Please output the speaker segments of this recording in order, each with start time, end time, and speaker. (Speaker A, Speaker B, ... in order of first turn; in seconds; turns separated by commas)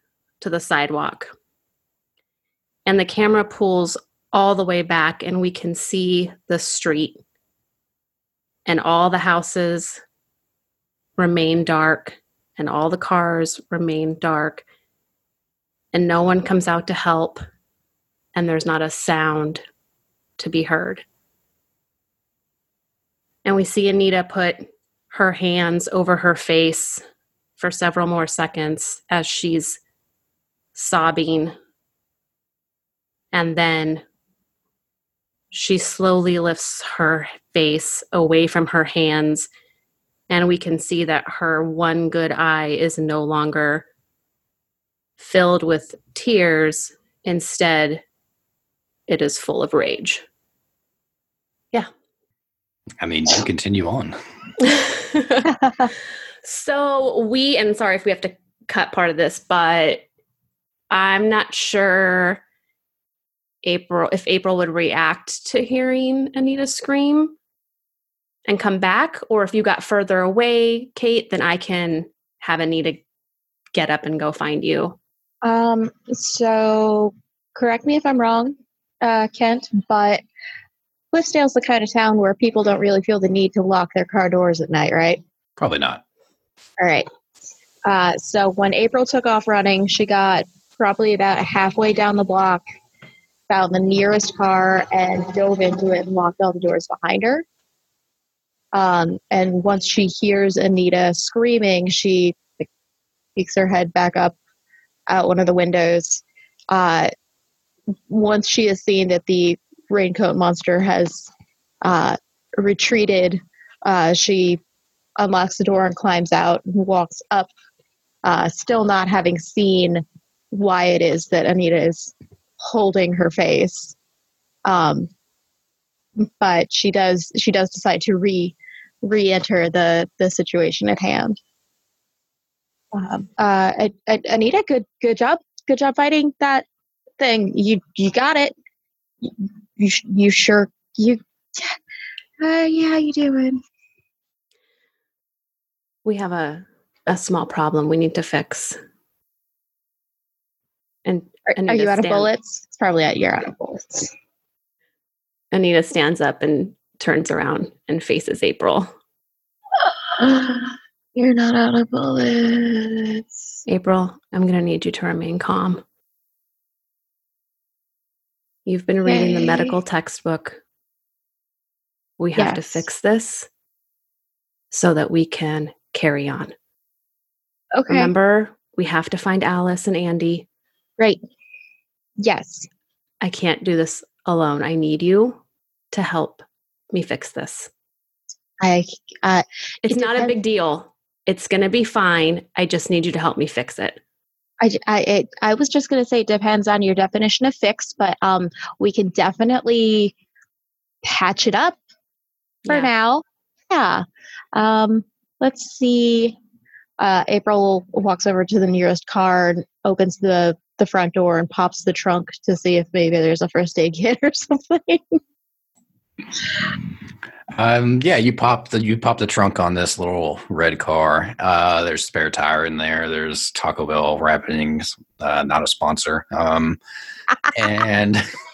Speaker A: 0.4-1.3, Speaker A: 2.9-7.2, Speaker A: 8.7-10.0, Speaker A: 11.2-14.6, Speaker A: 15.9-17.4, Speaker A: 18.3-19.6, Speaker A: 20.4-21.0, Speaker A: 23.4-27.0, Speaker A: 27.6-29.8, Speaker A: 30.7-31.5, Speaker A: 33.3-34.0, Speaker A: 35.5-39.5, Speaker A: 40.3-43.8, Speaker A: 45.2-48.0, Speaker A: 49.1-50.2, Speaker B: 53.0-54.2, Speaker A: 54.6-55.7, Speaker A: 56.4-60.0, Speaker A: 60.9-62.4, Speaker A: 63.6-67.3, Speaker A: 68.5-73.0, Speaker A: 73.7-75.0, Speaker C: 75.5-78.5, Speaker C: 79.1-80.1, Speaker C: 81.1-85.2, Speaker B: 85.6-86.0, Speaker C: 87.9-92.6, Speaker C: 93.5-97.4, Speaker C: 98.8-102.3, Speaker C: 103.4-104.3, Speaker C: 105.2-106.2, Speaker C: 106.8-107.1, Speaker C: 108.1-111.2, Speaker C: 112.8-113.3, Speaker C: 113.9-114.6, Speaker C: 115.2-117.5, Speaker C: 118.3-120.0, Speaker C: 120.6-122.1, Speaker C: 122.8-123.9, Speaker C: 124.7-125.0, Speaker C: 126.4-128.5, Speaker C: 129.1-131.3, Speaker C: 133.1-136.6, Speaker C: 137.2-138.5, Speaker C: 139.9-141.2, Speaker C: 142.5-143.6, Speaker A: 146.0-148.8, Speaker A: 151.1-152.3, Speaker C: 152.2-154.1, Speaker A: 155.5-158.9, Speaker C: 160.3-160.6, Speaker C: 161.2-163.2, Speaker A: 163.7-165.8, Speaker A: 168.7-170.6, Speaker A: 172.2-173.5, Speaker A: 174.7-176.5, Speaker A: 177.9-180.4, Speaker C: 182.3-182.6, Speaker A: 183.2-185.4, Speaker A: 185.9-187.7, Speaker C: 188.7-189.4, Speaker A: 189.8-194.0, Speaker C: 194.7-200.0, Speaker C: 201.1-201.7, Speaker A: 202.7-202.9, Speaker C: 202.7-203.2, Speaker C: 204.6-206.3, Speaker C: 207.1-215.0, Speaker B: 217.5-226.8, Speaker B: 227.5-228.3